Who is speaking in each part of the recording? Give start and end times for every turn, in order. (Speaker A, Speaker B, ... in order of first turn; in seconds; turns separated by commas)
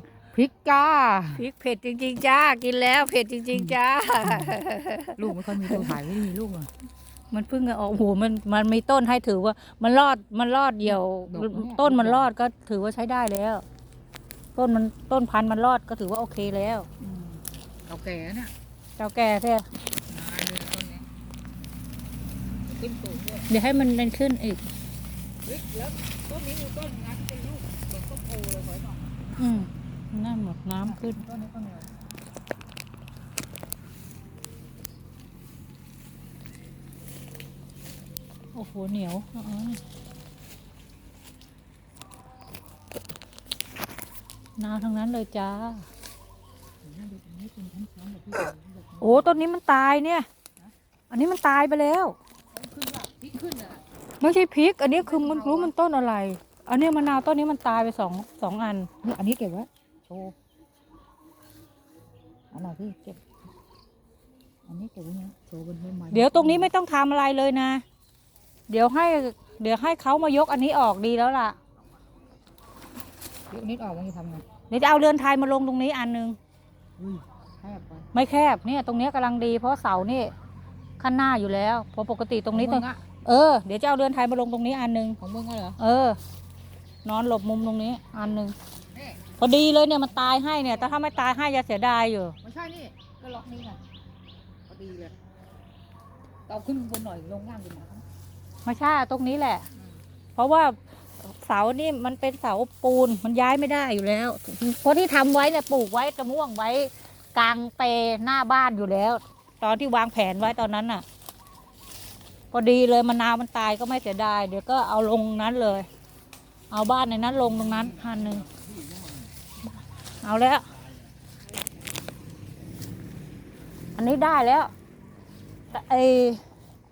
Speaker A: 0.3-1.4, Speaker B: 1.4-6.0, Speaker A: 3.5-4.6, Speaker A: 5.2-6.7, Speaker B: 7.3-13.7, Speaker A: 10.8-12.3, Speaker B: 14.6-16.9, Speaker A: 17.0-18.5, Speaker B: 19.0-19.7, Speaker A: 20.1-21.1, Speaker A: 22.7-23.5, Speaker B: 23.5-24.7, Speaker A: 25.4-29.3, Speaker B: 29.4-31.2, Speaker A: 30.9-31.9, Speaker B: 38.5-39.8, Speaker B: 44.6-45.9, Speaker A: 46.8-49.4, Speaker B: 49.0-50.3, Speaker B: 51.1-52.2, Speaker A: 52.5-53.8, Speaker B: 54.2-58.9, Speaker A: 55.0-55.7, Speaker A: 59.0-60.3, Speaker A: 62.5-63.2, Speaker A: 64.7-66.7, Speaker B: 66.1-67.8, Speaker B: 68.7-71.6, Speaker A: 73.5-74.4, Speaker B: 74.7-76.4, Speaker A: 77.0-78.1, Speaker B: 78.1-80.3, Speaker B: 81.0-85.2, Speaker A: 82.5-83.0, Speaker A: 85.2-85.8, Speaker B: 85.8-86.2, Speaker B: 87.0-88.5, Speaker A: 88.9-89.2, Speaker B: 89.4-92.4, Speaker A: 90.8-91.2, Speaker A: 92.4-93.8, Speaker A: 94.7-95.2, Speaker A: 96.5-98.0, Speaker B: 98.7-99.7, Speaker B: 100.4-111.0, Speaker B: 112.5-115.9, Speaker B: 116.7-118.5, Speaker B: 120.2-120.7, Speaker B: 124.0-124.7, Speaker B: 125.7-126.4